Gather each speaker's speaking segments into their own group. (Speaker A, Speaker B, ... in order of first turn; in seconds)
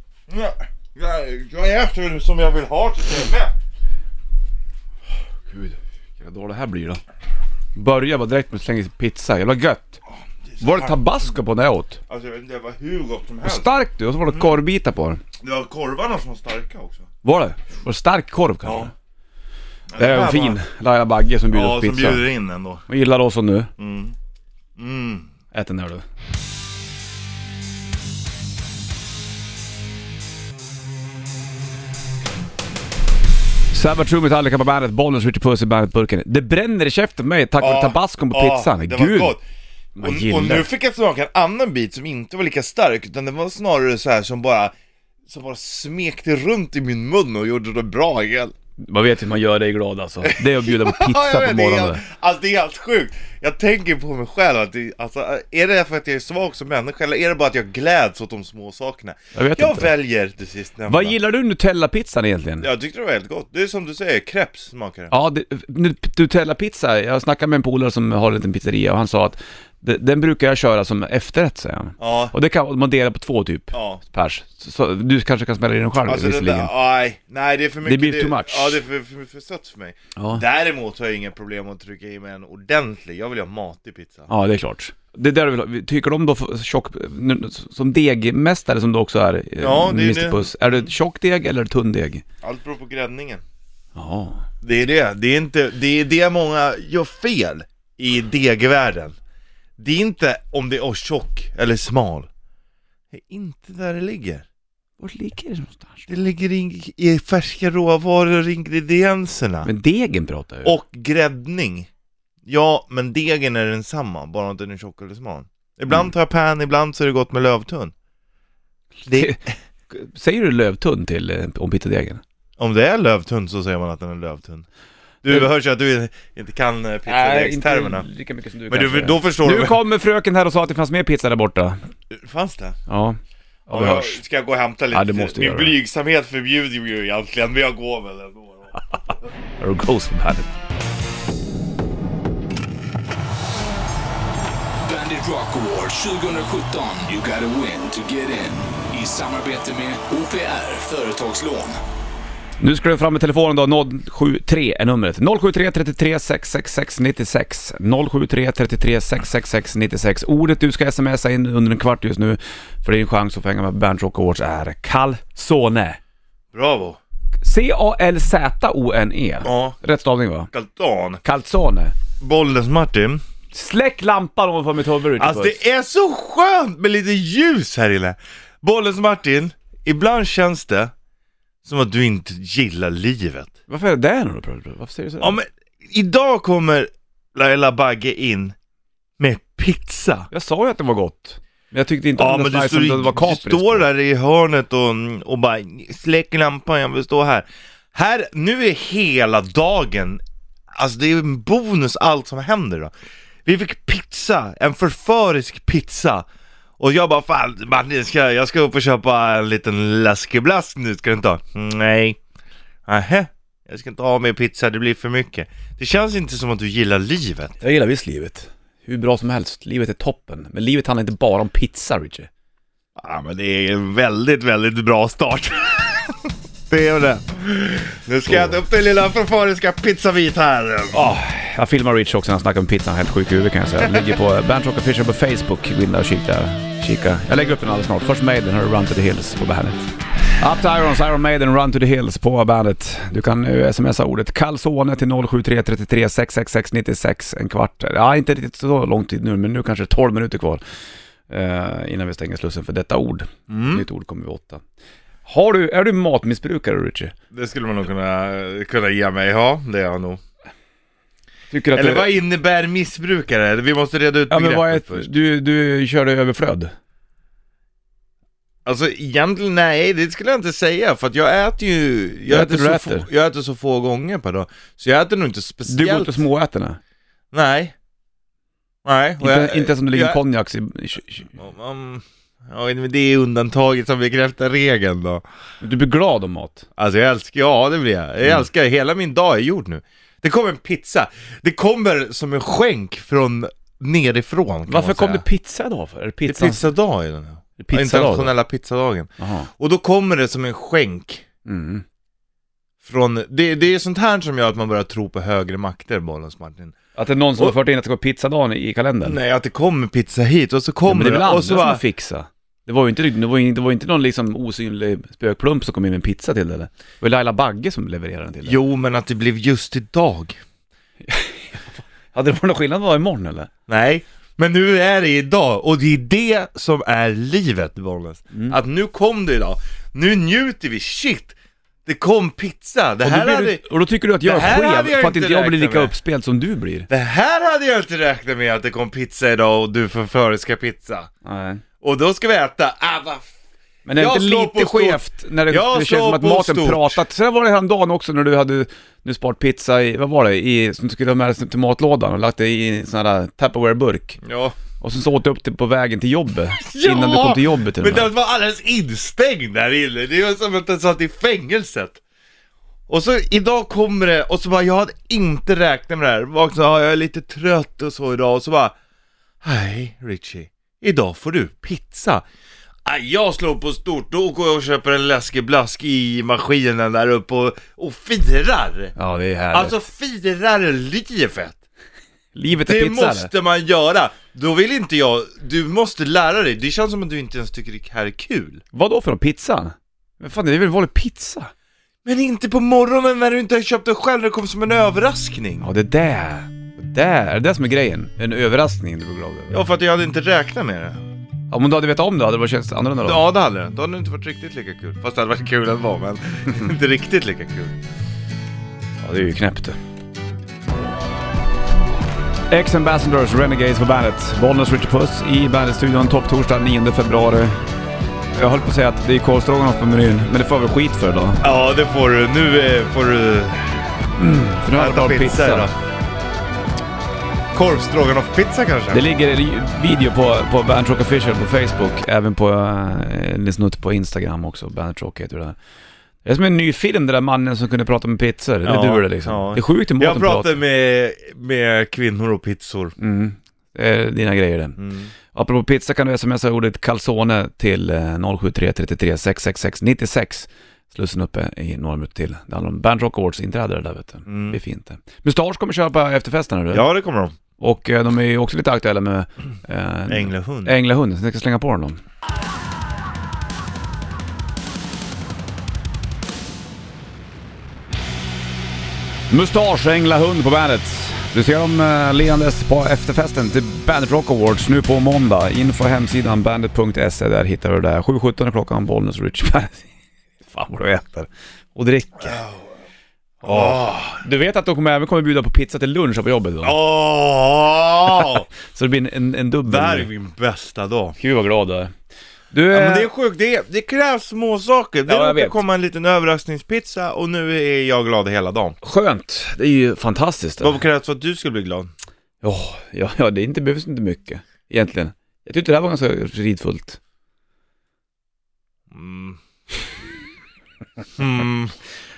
Speaker A: 0.3-3.5, 10.1-11.0, 12.1-13.7, 15.4-17.1, 18.6-18.9, 19.9-20.6, 21.5-22.8, 23.8-24.1, 24.8-25.3, 37.6-39.4, 40.0-44.7, 45.3-48.5, 50.2-61.2, 62.6-65.1, 72.0-72.3, 73.7-74.0, 76.1-84.3, 89.6-90.9, 92.4-93.4, 94.6-99.2, 99.8-102.3, 103.1-104.5, 106.1-109.7, 110.7-111.9, 112.5-117.9, 119.1-119.4, 122.6-124.7, 125.2-128.1, 128.7-129.8, 132.1-132.8, 133.7-138.8, 166.5-167.0, 169.4-169.8, 170.5-171.2, 172.2-173.2, 175.2-180.9, 181.6-183.5, 185.2-188.6, 189.2-190.3, 192.2-200.2, 200.7-202.9, 203.4-206.3, 206.8-212.2, 212.9-217.6, 223.0-231.0, 233.8-234.1, 253.5-253.9, 257.3-260.2, 261.7-265.1, 268.6-276.2, 277.3-277.7, 278.9-280.2, 281.4-285.2, 286.8-295.2, 296.3-301.2, 302.8-306.8, 309.0-311.8, 318.4-320.4, 323.7-333.6, 334.2-335.9, 336.9-341.1, 341.8-343.3, 344.0-347.0, 354.2-354.6, 356.6-362.0, 362.9-368.8, 369.4-372.2, 372.9-378.9, 379.5-381.6, 382.5-388.6, 392.1-395.7, 399.5-401.0, 403.0-407.8, 421.4-423.8, 424.7-425.7, 427.5-429.0, 438.6-442.9, 444.8-445.1, 454.3-454.6, 456.7-457.4, 460.1-460.8, 482.2-482.7, 483.4-484.2, 486.6-488.5, 489.7-491.2, 492.7-498.8, 500.6-501.9, 508.9-509.4, 511.2-511.8
Speaker B: 5.5-7.0, 7.8-10.0, 10.6-12.0, 13.4-15.2, 17.2-18.9, 20.0-22.2, 22.9-23.7, 25.5-26.0, 33.7-39.4, 40.0-40.7, 48.8-52.0, 59.4-59.9, 60.9-62.7, 65.1-76.7, 77.8-78.8, 80.2-80.4, 84.3-92.2, 94.0-94.4, 105.0-106.1, 109.7-110.8, 119.0-122.2, 127.1-131.8, 132.9-134.2, 134.9-135.8, 139.6-140.5, 152.6-166.0, 167.4-170.5, 171.2-172.0, 173.5-175.6, 183.7-185.4, 190.3-193.9, 217.6-222.3, 228.3-228.6, 230.9-250.6, 251.3-254.6, 255.2-257.1, 261.5-262.1, 264.3-266.7, 272.3-273.1, 275.7-276.8, 279.2-281.3, 285.6-286.7, 294.7-296.7, 297.6-298.4, 299.2-299.5, 301.4-301.8, 307.0-309.2, 310.9-318.6, 321.1-323.5, 333.0-336.9, 341.2-341.6, 343.9-354.2, 354.8-358.1, 379.0-379.8, 382.4-383.3, 388.7-391.5, 395.6-399.6, 401.5-403.2, 409.0-409.8, 412.5-417.6, 418.4-421.4, 424.2-425.7, 428.9-435.6, 436.2-440.6, 443.0-444.8, 445.3-456.9, 457.6-462.0, 469.3-479.9, 480.4-482.4, 483.4-486.8, 488.6-490.1, 491.2-491.9, 492.5-493.1, 495.1-495.6, 498.8-500.8, 502.4-507.0
Speaker C: 144.8-151.8